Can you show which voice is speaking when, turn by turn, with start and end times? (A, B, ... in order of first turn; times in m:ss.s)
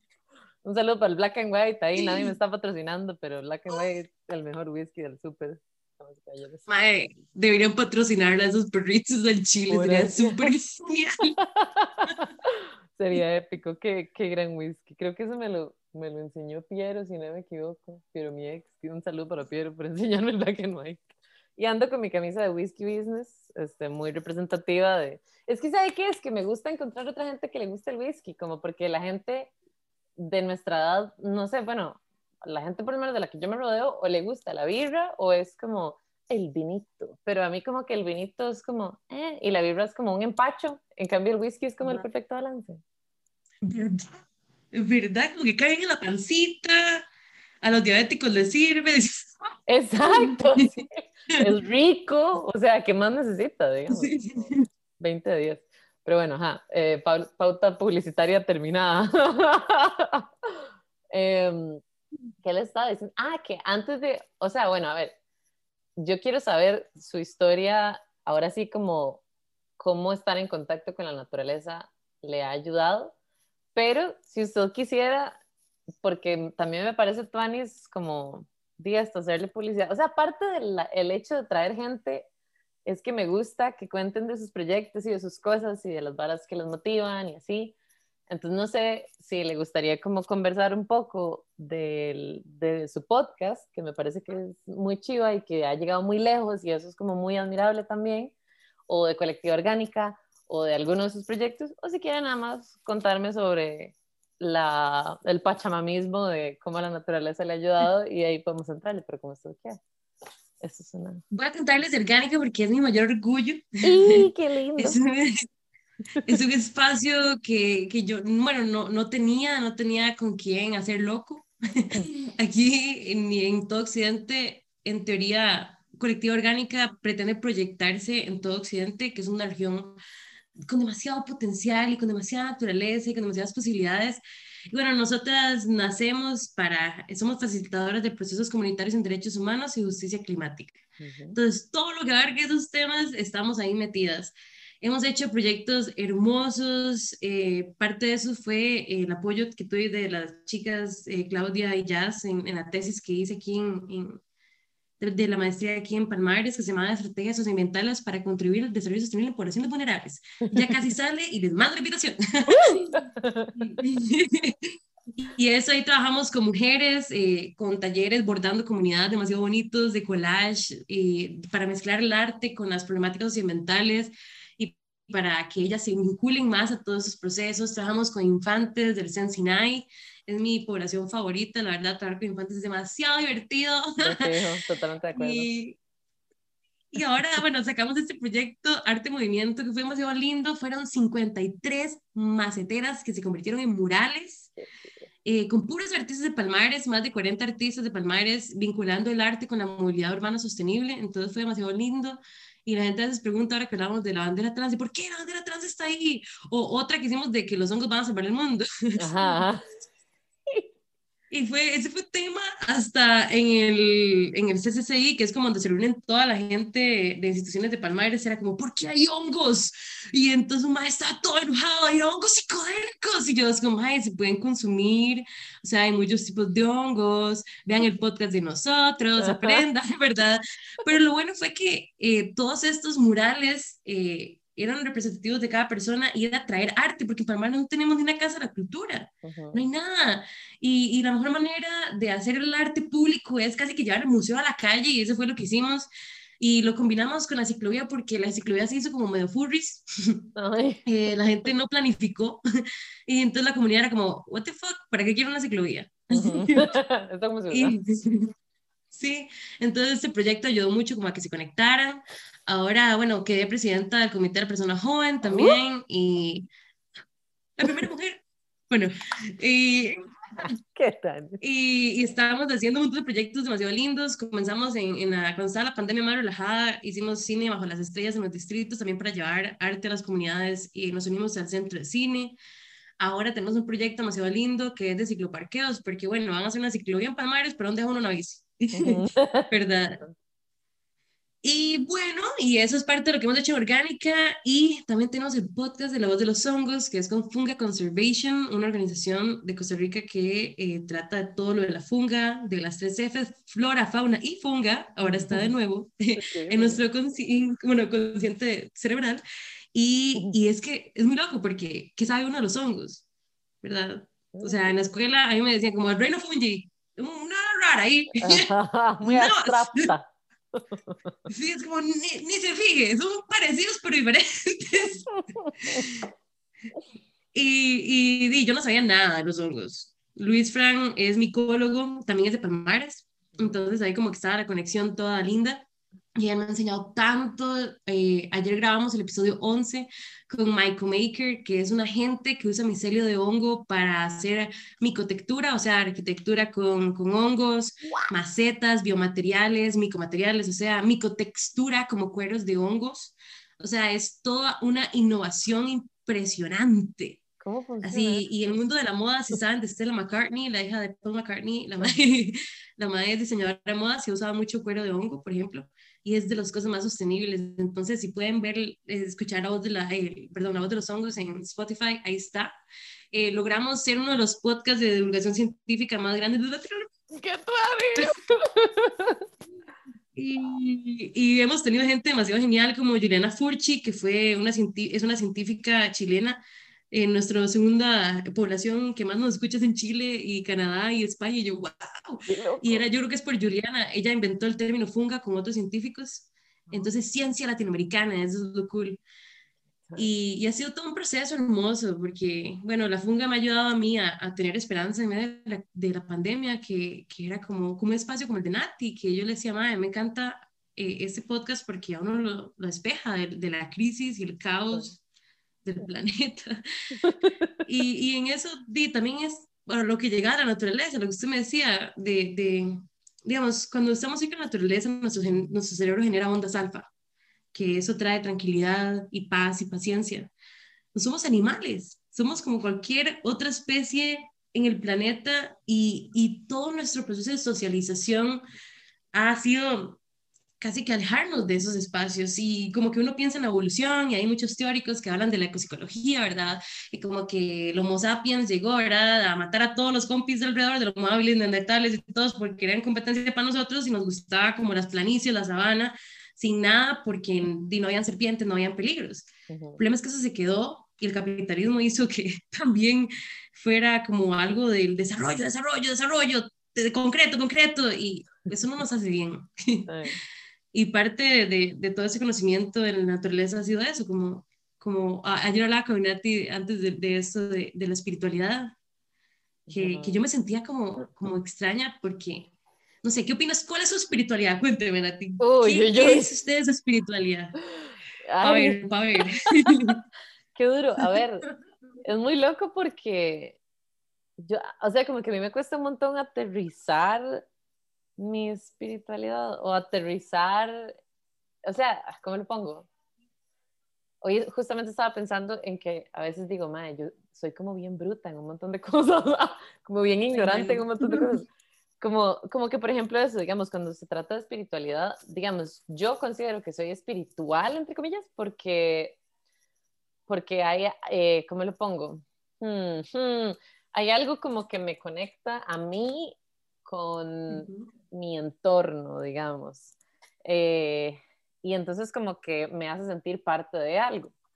0:00.6-0:06.7 A
0:02.0-0:02.3 B
0:06.7-0:11.3 B
0:09.7-0:10.5 A
0:11.4-0:21.0 A
0:21.6-0:29.5 A
0:30.2-0:42.8 A
0:43.6-0:44.1 B
0:44.7-0:47.0 B
0:47.6-0:49.3 B
0:49.7-1:01.8 A
0:50.2-0:50.7 B
0:53.9-0:54.7 B
1:02.4-1:05.2 A
1:06.0-1:09.2 A
1:09.8-1:13.1 A
1:13.8-1:15.4 A
1:16.0-1:22.3 A
1:22.9-1:27.8 A
1:28.3-1:38.3 A
1:38.9-1:49.8 A
1:50.6-1:51.2 A
1:51.3-1:54.2 B
1:53.8-1:55.0 A
1:54.8-1:55.4 B
1:56.2-2:10.0 B
2:10.6-2:20.8 B
2:21.0-2:21.4 A
2:21.4-2:34.2 B
2:35.0-2:43.0 B
2:42.5-2:43.8 A
2:43.8-3:04.3 B
3:04.0-3:05.5 A
3:05.2-3:05.8 B
3:06.9-3:14.5 B
3:14.6-3:15.1 A
3:15.2-3:29.4 B
3:29.0-3:29.7 A
3:31.3-4:05.9 B
3:49.2-3:49.6 A
3:59.2-3:59.7 A
4:06.4-4:10.3 B
4:10.4-4:10.8 A
4:10.8-4:12.4 B
4:13.1-4:16.7 B
4:16.1-4:17.8 A
4:17.5-4:18.3 B
4:18.9-4:26.5 B
4:25.2-4:25.6 A
4:27.6-4:30.5 B
4:30.4-4:31.4 A
4:31.4-4:42.4 B
4:43.0-4:50.0 B
4:48.8-4:50.1 A
4:51.4-5:09.2 B
5:05.0-5:05.5 A
5:06.2-5:06.8 A
5:09.7-5:13.0 B
5:13.6-5:18.5 B
5:14.3-5:14.8 A
5:18.2-5:21.1 A
5:19.0-5:19.9 B
5:21.3-5:25.1 B
5:25.1-5:25.9 A
5:25.6-5:26.1 B
5:27.3-5:35.6 B
5:36.2-5:57.2 B
5:47.8-5:48.1 A
5:57.4-5:58.3 A
5:57.8-6:12.5 B
6:13.1-6:16.9 B
6:17.1-6:19.2 A
6:20.2-6:26.4 B
6:26.9-6:39.0 B
6:32.3-6:32.9 A
6:40.0-6:55.0 B
6:55.6-6:56.6 B
6:57.0-6:57.6 A
6:57.6-7:06.9 B
7:07.5-7:10.3 B
7:10.9-7:18.4 B
7:19.1-7:20.0 B
7:20.6-7:49.9 B
7:39.5-7:39.8 A
7:49.9-7:50.2 A
7:50.7-7:58.7 B
7:59.7-8:00.2 A
7:59.7-8:02.5 B
8:03.0-8:07.6 B
8:05.4-8:06.3 A
8:07.8-8:08.8 A
8:08.4-8:10.0 B
8:09.4-8:09.8 A
8:10.6-8:11.5 A
8:12.0-8:13.6 A
8:14.4-8:17.4 A
8:18.2-8:20.9 A
8:21.6-8:22.9 A
8:24.2-8:31.4 A
8:30.3-8:31.4 B
8:32.0-8:39.2 A
8:40.3-8:54.3 A
8:47.5-8:47.9 B